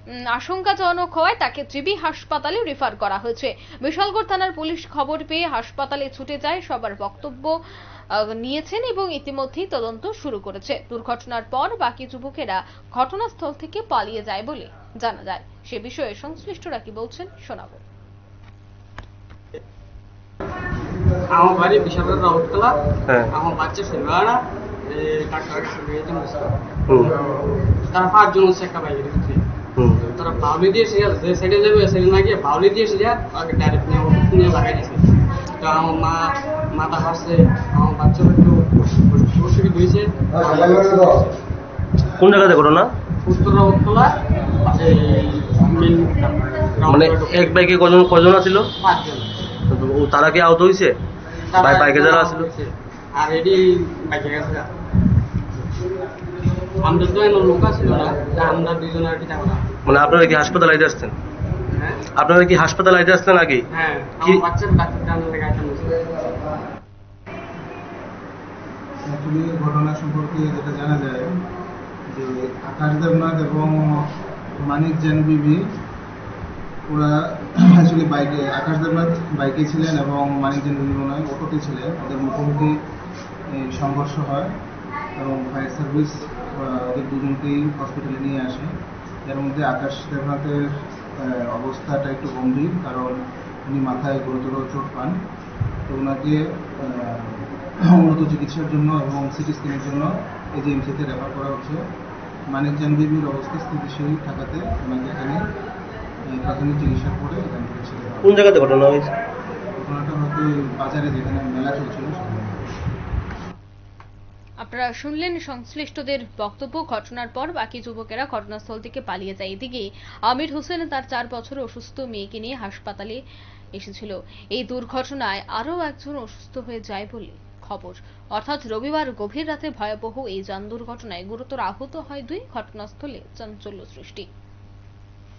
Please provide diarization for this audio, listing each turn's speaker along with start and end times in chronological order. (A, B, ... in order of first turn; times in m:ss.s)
0:00.3-0:07.6 A
0:08.1-0:17.8 A
0:21.3-0:22.8 B
0:23.3-0:26.6 B
0:26.9-0:27.1 C
0:27.9-0:29.4 B
0:29.8-0:30.1 C
0:30.0-0:35.0 B
0:35.6-0:41.3 B
0:42.2-0:42.9 C
0:43.2-0:47.7 B
0:46.9-0:48.7 C
0:48.8-0:49.3 B
0:49.7-0:51.0 C
0:51.5-0:54.7 B
0:51.6-0:52.5 C
0:56.8-0:59.7 B
0:59.9-1:01.2 C
1:01.7-1:02.1 B
1:02.1-1:03.6 C
1:03.7-1:06.2 B
1:09.0-1:11.3 D
1:12.1-1:15.6 D
1:16.9-1:22.8 D
1:23.5-1:24.5 D
1:25.2-1:28.7 D
1:29.2-1:35.2 D
1:35.9-1:41.8 D
1:42.5-1:45.4 D
1:46.3-1:48.4 D
1:48.2-1:49.1 C
1:49.8-1:52.7 D
1:54.6-2:03.2 A
2:03.8-2:14.3 A